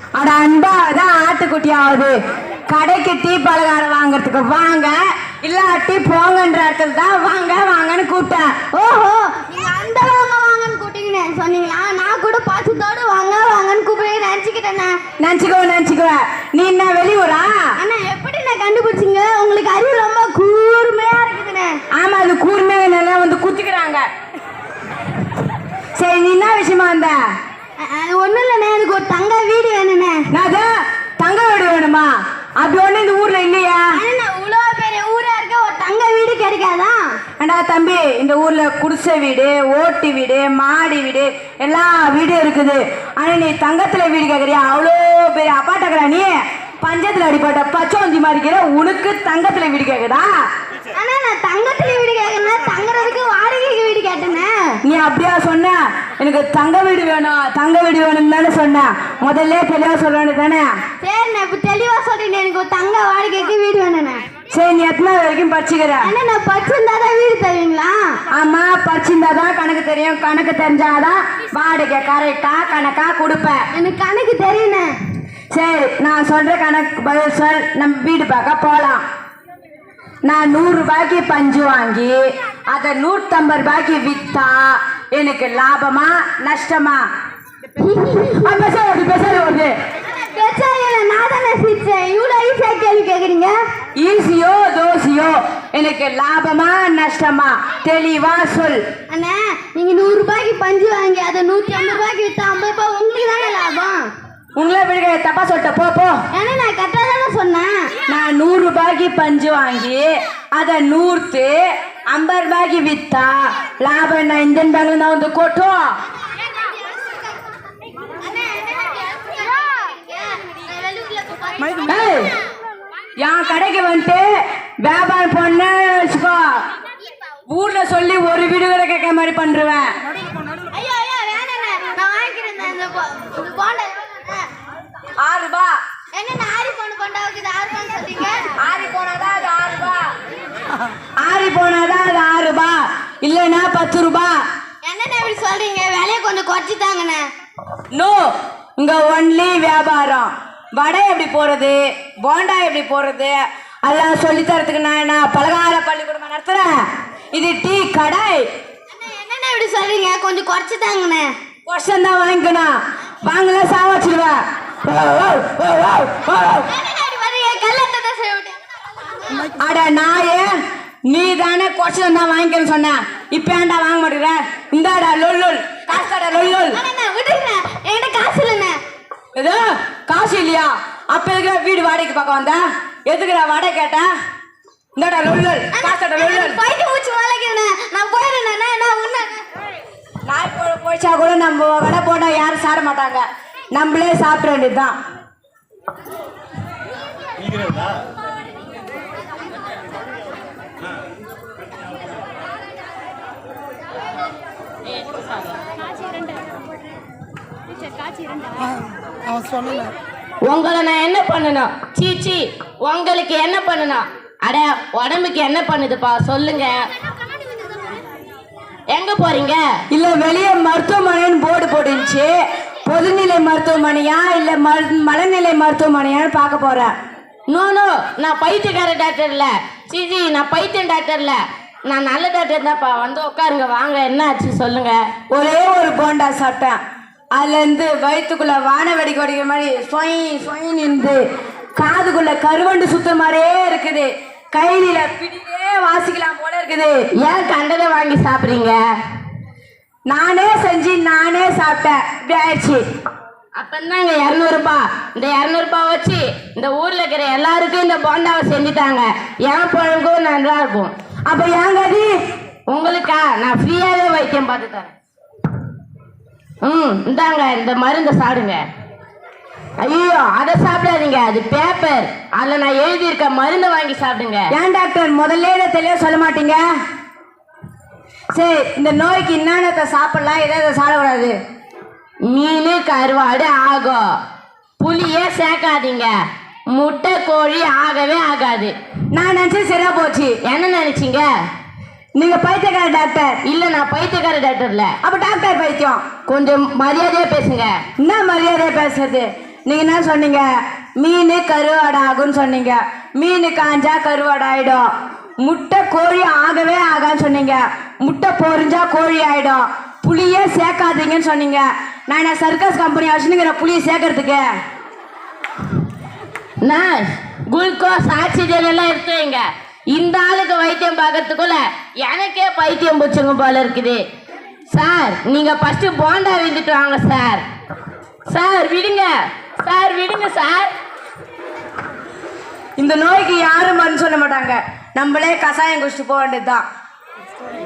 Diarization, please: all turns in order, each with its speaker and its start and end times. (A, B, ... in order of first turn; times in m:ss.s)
0:00.2-0:02.1 A
0:02.7-0:08.5 A
0:08.7-0:15.0 B
0:15.2-0:17.7 A
0:17.8-0:21.8 B
0:21.9-0:24.0 A
0:26.0-0:27.2 A
0:27.8-0:30.2 B
0:30.3-0:32.1 A
0:32.6-0:33.8 A
0:33.9-0:37.0 B
0:37.4-0:50.3 A
0:50.9-0:54.8 B
0:54.8-1:00.7 A
1:01.0-1:04.2 B
1:04.5-1:06.1 A
1:06.0-1:08.2 B
1:08.3-1:13.7 A
1:13.7-1:14.9 B
1:15.5-1:19.0 A
1:20.2-1:27.0 A
1:27.8-1:28.5 B
1:28.4-1:29.7 A
1:30.1-1:33.6 B
1:34.0-1:38.8 A
1:39.1-1:44.1 B
1:44.6-1:46.2 A
1:46.3-1:47.9 B
1:48.1-1:56.0 A
1:56.6-1:57.1 B
1:58.2-2:02.0 B
2:01.9-2:02.3 A
2:03.2-2:04.3 A
2:04.8-2:06.6 A
2:07.5-2:09.9 A
2:10.7-2:14.5 B
2:15.2-2:15.8 A
2:16.1-2:18.5 B
2:18.6-2:20.0 A
2:21.2-2:24.4 A
2:24.8-2:27.2 B
2:27.9-2:38.5 A
2:38.9-2:41.3 B
2:41.7-2:46.7 A
2:46.7-2:48.6 B
2:49.6-2:50.5 A
2:51.1-2:56.8 A
2:56.7-2:58.8 B
2:59.3-3:04.1 A
3:05.0-3:06.6 A
3:05.7-3:09.4 B
3:10.3-3:14.9 A
3:30.4-3:36.8 C
3:38.9-3:39.6 C
3:39.9-3:42.3 A
3:42.8-3:46.9 A
3:47.5-3:55.0 C
3:55.3-3:56.8 A
3:57.3-4:01.2 A
4:01.8-4:07.0 A
4:07.2-4:08.8 C
4:10.1-4:12.8 A
4:13.6-4:20.9 C
4:21.3-4:22.1 A
4:22.7-4:24.9 C
4:26.6-4:28.6 C
4:29.8-4:34.4 C
4:34.5-4:36.6 A
4:38.3-4:41.3 A
4:42.3-4:44.0 C
4:44.8-4:46.1 C
4:46.7-4:48.7 C
4:49.1-4:50.4 A
4:50.4-4:51.3 C
4:52.2-4:53.4 A
4:53.4-4:55.0 C
4:55.0-4:56.0 A
4:56.3-4:57.8 C
4:58.0-5:04.9 A
5:05.4-5:14.5 A
5:16.6-5:24.0 C
5:24.7-5:27.4 C
5:28.3-5:29.1 C
5:29.6-5:30.7 C
5:32.8-5:36.6 A